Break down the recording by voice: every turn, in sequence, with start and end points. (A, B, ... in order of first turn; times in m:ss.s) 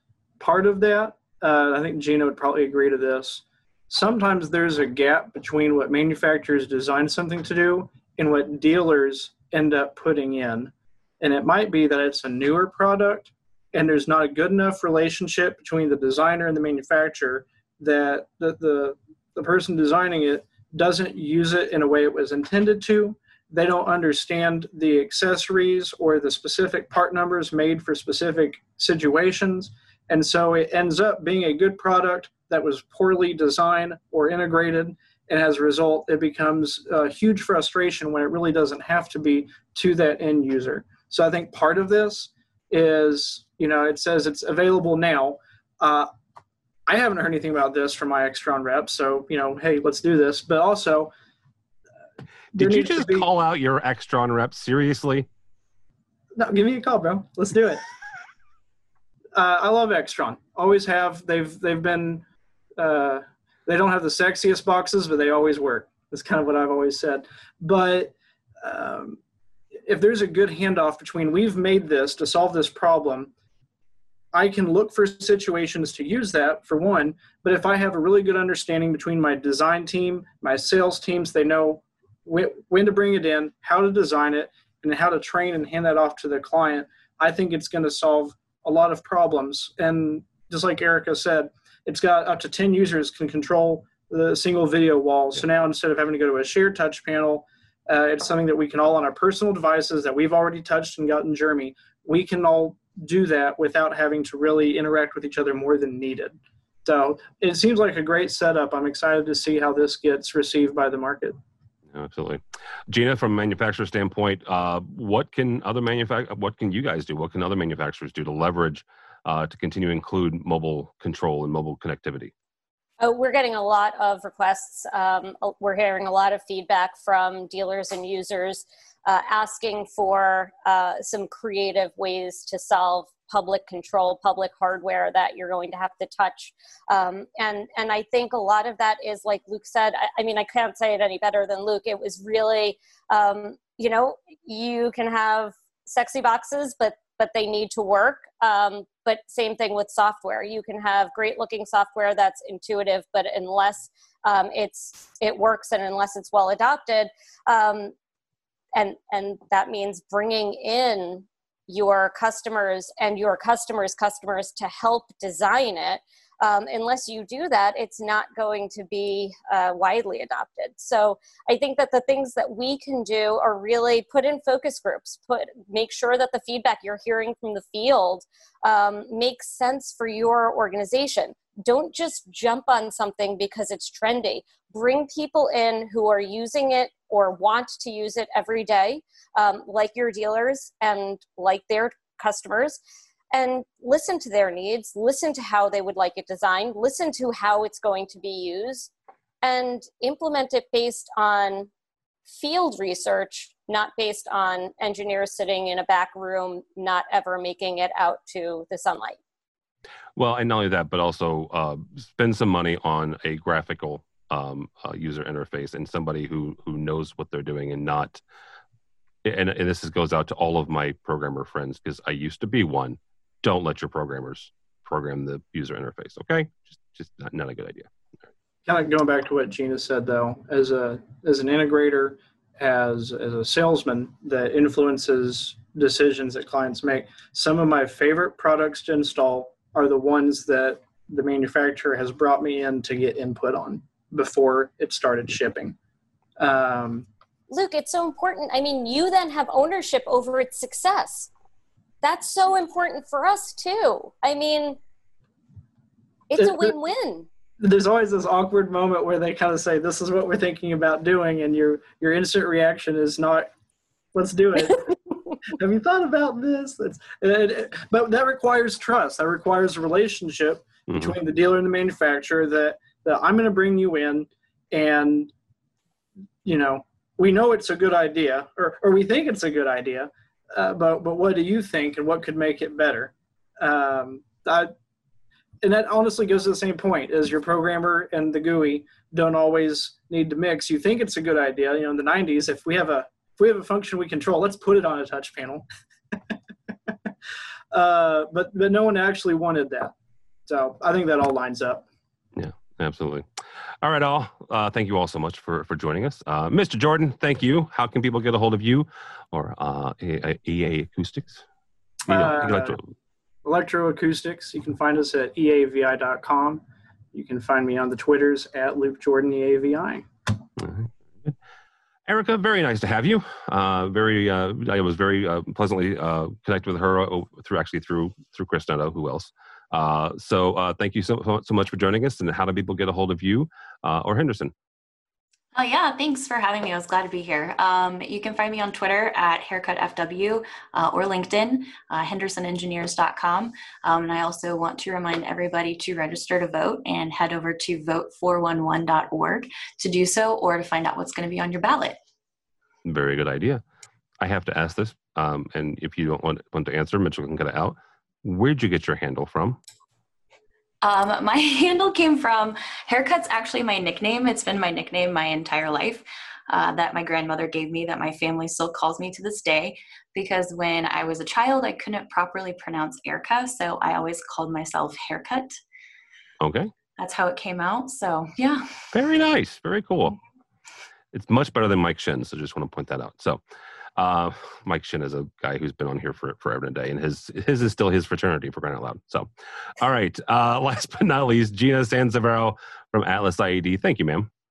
0:00.4-0:46.1 A
0:46.9-0:51.1 A
0:52.5-0:55.3 B
0:52.6-0:53.3 A
0:56.3-0:57.8 A
0:59.3-1:02.2 A
1:02.8-1:09.2 A
1:09.8-1:13.3 A
1:14.3-1:51.4 A
1:51.9-2:02.3 B
2:03.0-2:37.9 C
2:38.7-3:12.8 C
3:13.3-3:18.9 C
3:19.4-3:21.7 C
3:22.3-3:29.2 C
3:30.2-3:38.2 B
3:39.2-3:47.9 B
3:48.6-4:05.8 A
4:06.4-4:07.1 A
4:07.5-4:11.3 C
4:12.0-4:14.8 C
4:16.3-4:17.3 C
4:16.4-4:16.7 A
4:17.6-4:23.5 A
4:24.1-4:35.3 A
4:30.9-4:31.1 B
4:36.4-4:44.7 A
4:45.6-4:56.3 A
4:57.7-4:59.9 A
5:00.4-5:01.8 A
5:02.4-5:03.2 B
5:03.8-5:11.4 B
5:12.1-5:12.8 A
5:12.1-5:12.9 B
5:13.4-5:20.0 A
5:20.6-5:21.3 B
5:22.1-5:34.5 B
5:35.5-5:52.0 D
5:52.8-5:53.6 B
5:54.2-5:59.6 B
6:00.8-6:15.5 D
6:16.4-6:16.7 B
6:17.0-6:18.7 D
6:18.9-6:20.2 B
6:21.1-6:23.4 B
6:24.0-6:34.3 B